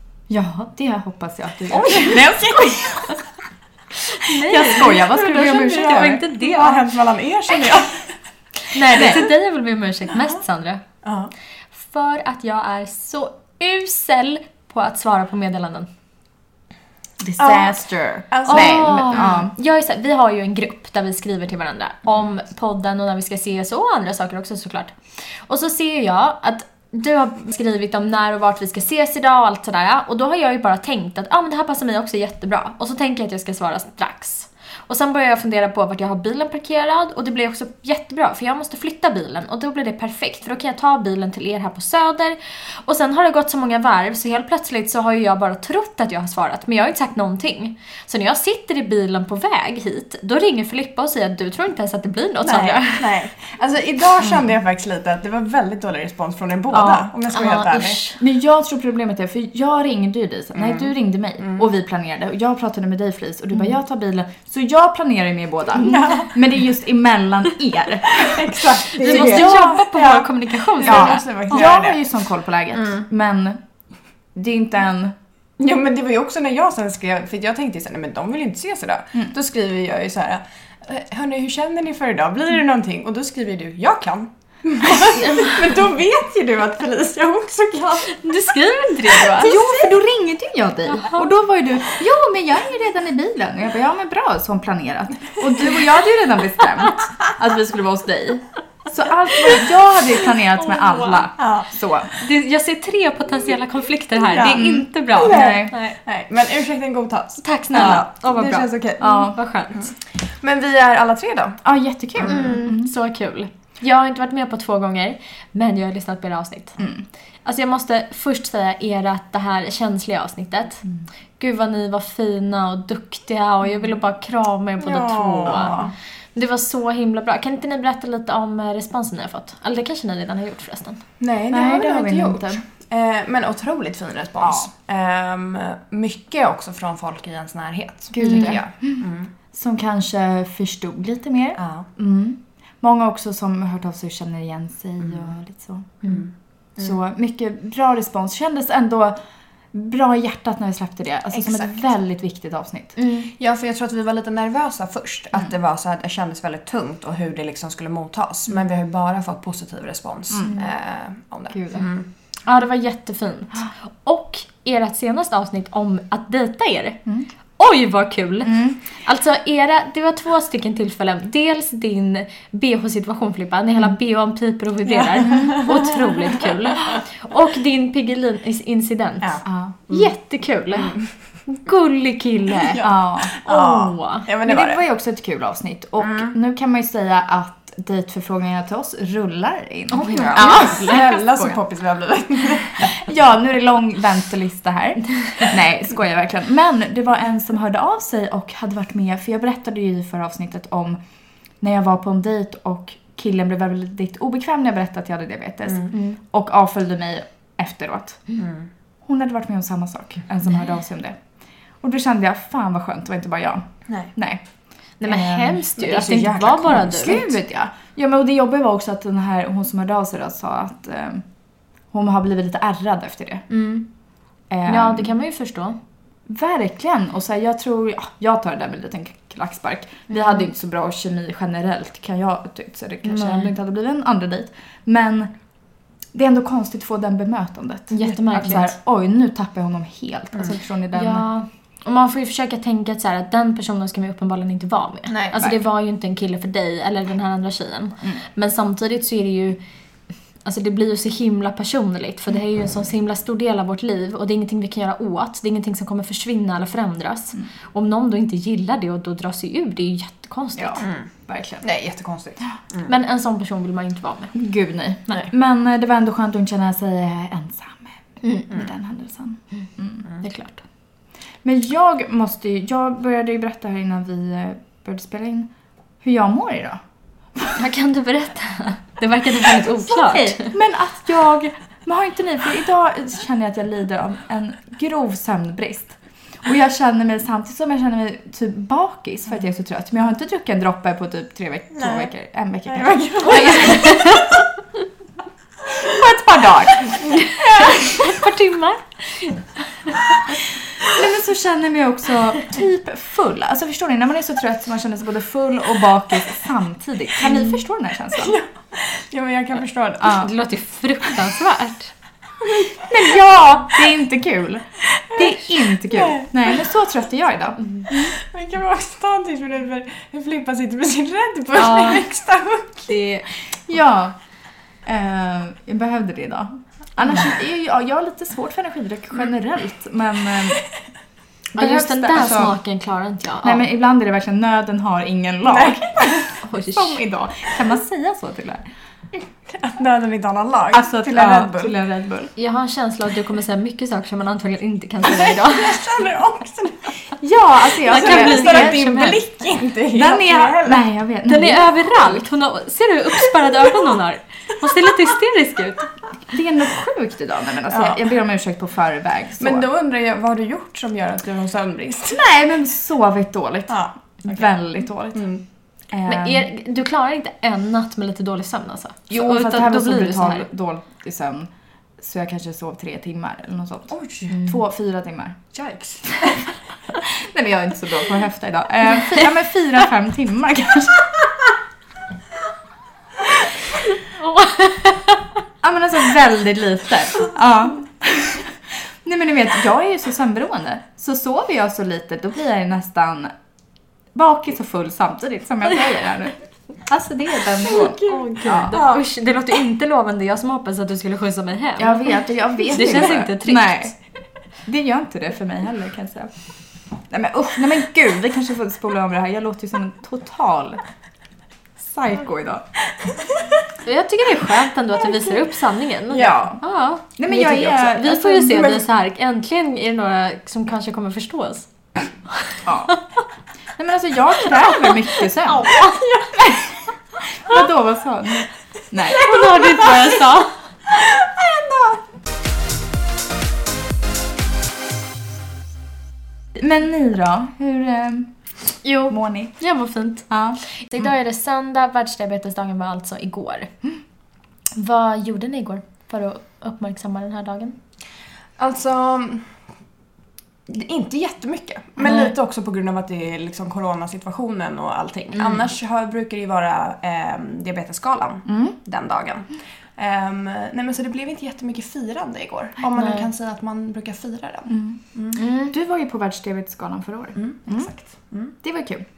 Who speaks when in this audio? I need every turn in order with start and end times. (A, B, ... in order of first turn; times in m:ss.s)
0:00.3-0:03.1 A
0:01.7-0:02.9 B
0:04.1-0:06.8 C
0:04.4-0:06.2 A
0:05.4-0:08.1 B
0:08.7-0:10.8 C
0:08.9-0:09.3 A
0:11.0-0:11.3 B
0:11.8-0:15.9 C
0:17.2-0:19.5 A
0:17.4-0:17.8 B
0:18.3-0:19.4 B
0:18.5-0:53.1 C
0:52.4-0:58.0 B
0:56.7-0:58.2 C
0:58.2-1:09.8 A
1:00.6-1:01.7 B
1:05.8-1:06.3 B
1:08.2-1:12.0 B
1:09.0-1:11.2 C
1:10.8-1:13.6 A
1:12.7-1:13.1 B
1:14.3-1:15.2 A
1:15.6-1:28.3 B
1:28.1-1:29.7 C
1:29.1-1:29.6 B
1:29.4-1:42.1 A
1:30.9-1:31.3 C
1:40.6-1:41.3 C
1:41.4-1:41.7 B
1:42.2-1:46.0 C
1:44.3-1:51.6 B
1:44.5-1:45.7 A
1:47.4-1:49.9 C
1:47.8-1:48.0 A
1:49.0-1:49.4 A
1:51.6-1:52.9 A
1:52.2-1:52.6 B
1:52.2-1:56.8 C
1:56.8-1:57.0 A
1:57.4-2:00.8 C
2:01.4-2:11.0 C
2:04.8-2:05.9 B
2:11.2-2:19.3 B
2:11.5-2:12.6 A
2:14.4-2:14.7 A
2:18.1-2:26.0 A
2:18.2-2:18.6 C
2:21.6-2:21.9 B
2:26.0-2:27.0 B
2:26.8-2:29.2 A
2:29.7-2:33.0 A
2:31.3-2:31.8 B
2:33.0-2:33.3 C
2:33.3-2:42.1 B
2:40.3-2:40.6 A
2:41.5-2:41.9 A
2:42.5-2:47.0 C
2:47.6-3:02.8 C
2:48.4-2:48.8 A
2:54.9-2:56.1 B
2:59.2-3:00.1 B
2:59.5-2:59.7 A
3:00.8-3:01.1 B
3:02.6-3:04.8 B
3:02.8-3:03.3 A
3:03.4-3:04.3 C
3:04.4-3:11.6 A
3:06.0-3:06.3 B
3:09.9-3:11.1 C
3:10.3-3:13.0 B
3:12.8-3:21.0 A
3:21.6-3:28.2 A
3:28.4-3:28.7 B
3:29.0-3:31.2 A
3:31.8-3:34.4 A
3:35.0-3:37.4 C
3:35.1-3:41.3 A
3:41.9-3:43.5 A
3:43.5-3:43.9 C
3:44.5-3:45.1 A
3:44.7-3:45.8 C
3:46.3-3:55.3 A
3:50.1-3:50.4 C
3:53.1-3:53.5 C
3:56.1-4:01.2 A
3:57.9-3:58.7 C
4:00.9-4:09.6 C
4:05.1-4:05.4 B
4:10.4-4:20.9 C
4:20.6-4:21.6 A
4:20.8-4:21.1 B
4:21.6-4:22.9 B
4:22.9-4:24.4 C
4:24.3-4:30.1 A
4:28.2-4:28.5 C
4:30.2-4:30.6 C
4:31.4-4:35.5 A
4:36.0-4:36.8 A
4:37.6-4:40.5 C
4:39.9-4:54.0 A
4:51.7-4:52.1 B
4:52.7-4:54.0 B
4:53.2-4:54.4 C
4:55.8-4:57.8 A
4:57.2-5:00.0 C
5:00.8-5:08.4 A
5:08.2-5:10.3 B
5:10.0-5:10.3 A
5:10.2-5:11.9 C
5:12.5-5:12.8 B
5:12.9-5:18.1 A
5:15.2-5:15.4 C
5:15.8-5:16.6 B
5:17.9-5:23.0 B
5:21.6-5:22.0 C
5:22.9-5:23.2 C
5:23.7-5:24.2 A
5:24.8-5:30.6 A
5:31.5-5:32.6 A
5:31.6-5:33.6 C
5:33.4-5:38.6 A
5:35.4-5:36.3 B
5:36.4-5:37.0 C
5:39.5-5:41.8 B
5:40.7-5:42.3 A
5:42.4-5:45.8 C
5:45.1-5:47.2 B
5:47.2-5:49.1 A
5:47.7-5:49.2 C
5:47.8-5:50.8 B
5:49.9-5:52.2 A
5:51.3-5:55.9 C
5:56.3-5:59.7 A
5:57.7-5:58.0 B
5:59.4-6:02.2 B
6:02.1-6:05.2 A
6:03.7-6:04.5 B
6:05.1-6:05.4 B
6:05.9-6:06.5 A
6:06.1-6:10.5 C
6:09.1-6:15.4 A
6:13.9-6:14.4 B
6:15.5-6:16.5 B
6:16.9-6:21.1 A
6:24.2-6:25.2 C
6:25.6-6:33.3 A
6:34.1-6:38.8 A
6:37.7-6:39.0 B
6:38.1-6:43.9 C
6:41.8-6:43.9 A
6:44.6-6:46.4 A
6:47.1-6:50.8 A
6:51.8-6:52.7 A
6:53.8-7:01.7 C
6:56.1-6:56.6 A
6:57.2-6:58.8 A
7:02.3-7:03.0 C
7:02.6-7:03.0 A
7:03.8-7:05.8 A
7:05.4-7:06.4 C
7:06.3-7:09.3 A
7:09.1-7:10.6 C
7:11.5-7:12.0 A
7:16.6-7:18.3 A
7:18.8-7:23.7 C
7:19.1-7:19.6 A
7:20.3-7:20.6 A
7:24.8-7:27.8 C
7:28.6-7:29.6 B
7:30.7-7:45.4 B
7:32.0-7:32.3 A
7:38.5-7:38.8 A
7:43.0-7:43.3 C
7:44.7-7:47.9 A
7:45.4-7:45.7 C
7:47.4-7:48.6 B
7:48.6-7:49.0 A